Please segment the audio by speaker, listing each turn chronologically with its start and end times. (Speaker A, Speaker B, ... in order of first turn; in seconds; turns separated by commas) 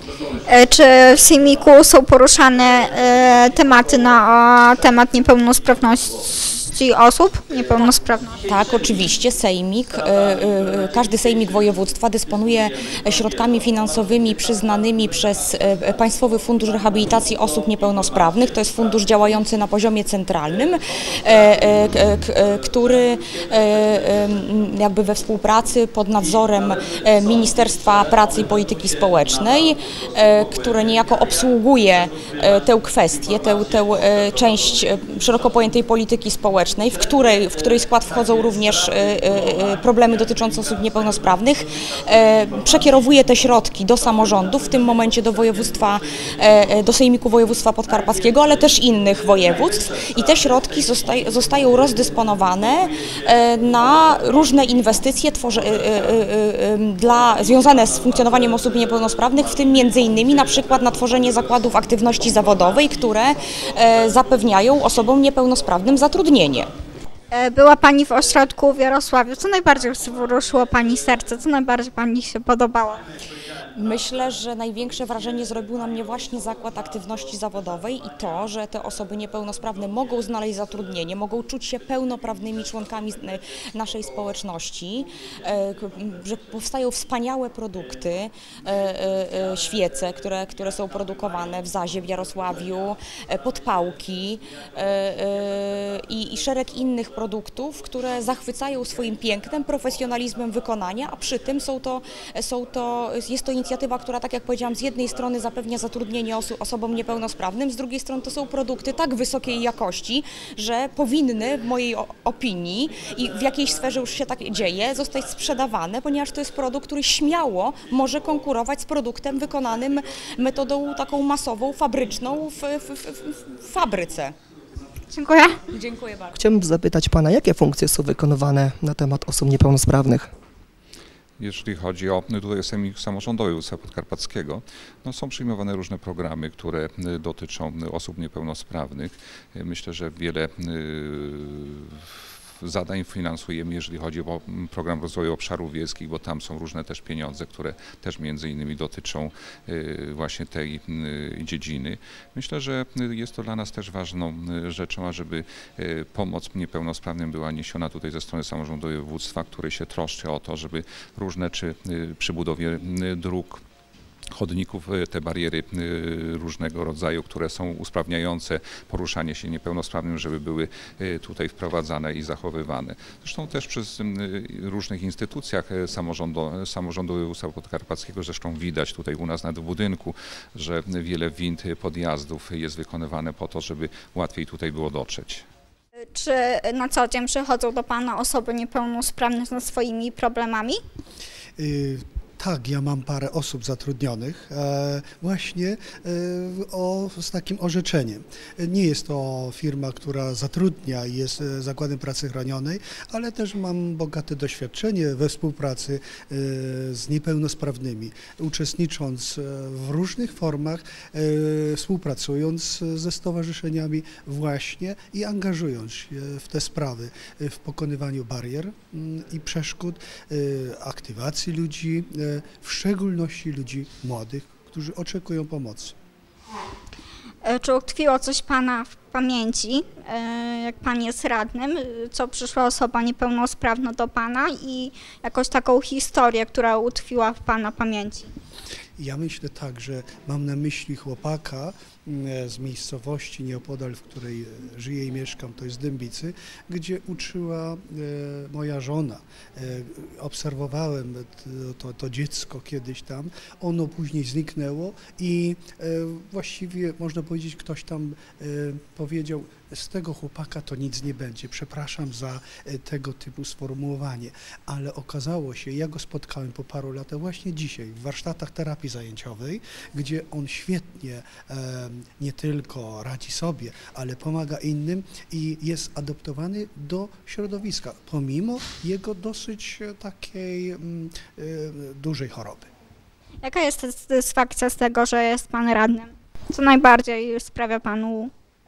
Speaker A: 0.5-8.4, Speaker B: 8.4-66.7, Speaker A: 67.3-73.0, Speaker B: 73.7-124.3, Speaker A: 125.1-125.6, Speaker B: 125.7-126.3, Speaker C: 126.3-130.3, Speaker D: 131.4-163.6, Speaker D: 164.3-185.4, Speaker A: 186.1-190.8, Speaker E: 191.6-225.9, Speaker A: 227.4-238.3, Speaker E: 239.0-282.7, Speaker A: 283.4-288.3